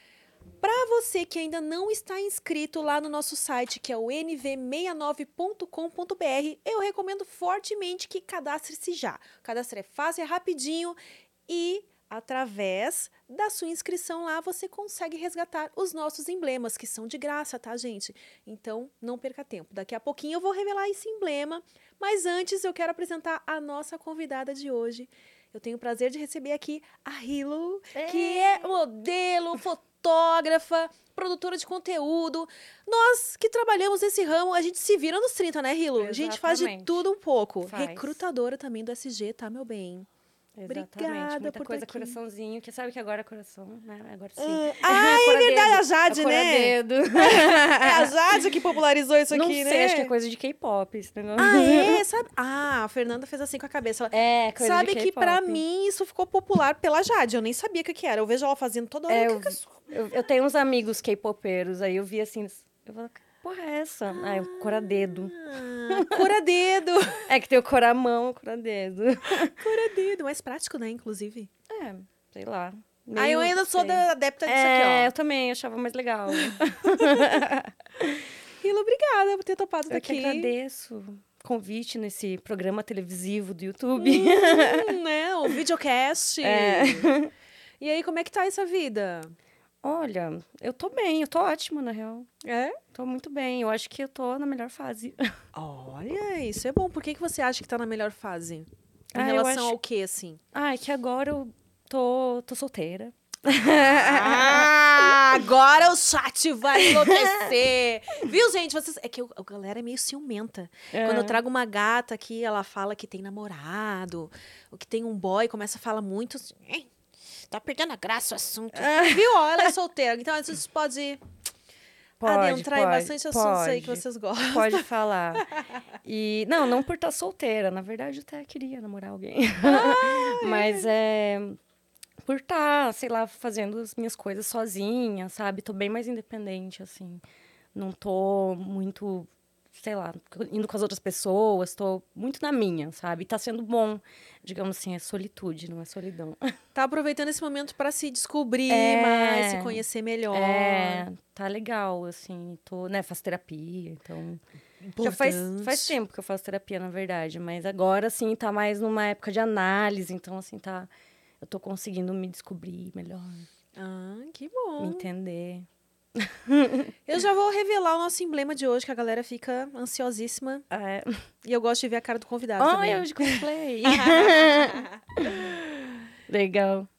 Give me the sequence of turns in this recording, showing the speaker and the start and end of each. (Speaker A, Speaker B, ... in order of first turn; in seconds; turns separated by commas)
Speaker A: 0.6-40.1, Speaker B: 27.9-28.6, Speaker B: 36.0-37.0, Speaker B: 37.6-38.2, Speaker B: 40.6-48.1, Speaker A: 40.7-42.2, Speaker A: 44.4-50.1, Speaker B: 49.3-52.0, Speaker A: 51.4-59.9, Speaker B: 54.1-55.6, Speaker B: 59.1-66.3, Speaker A: 64.1-67.3, Speaker B: 67.3-69.6, Speaker A: 69.5-71.5, Speaker B: 71.7-78.3, Speaker A: 73.2-75.1, Speaker A: 76.4-77.4, Speaker A: 78.6-80.5, Speaker B: 79.9-85.6, Speaker A: 84.0-87.2, Speaker B: 86.4-87.3, Speaker A: 87.8-89.3, Speaker B: 89.8-92.3, Speaker A: 92.4-92.8, Speaker B: 92.9-95.3, Speaker A: 95.5-100.4, Speaker B: 99.1-99.8, Speaker B: 100.5-105.5, Speaker A: 103.7-116.9, Speaker B: 106.7-107.5, Speaker B: 110.9-111.4, Speaker A: 117.5-121.2, Speaker B: 118.7-119.7, Speaker B: 122.2-125.5, Speaker A: 122.2-124.9, Speaker B: 126.0-131.6, Speaker A: 129.6-130.9, Speaker B: 132.2-137.2, Speaker B: 137.7-146.5, Speaker A: 146.8-151.1, Speaker B: 148.7-154.4, Speaker A: 154.8-155.9, Speaker B: 155.0-160.9, Speaker B: 161.4-163.5, Speaker A: 163.8-165.1, Speaker B: 164.8-166.9, Speaker A: 167.1-170.7, Speaker B: 170.7-171.2, Speaker A: 171.4-175.9, Speaker B: 172.6-175.4, Speaker B: 176.3-176.9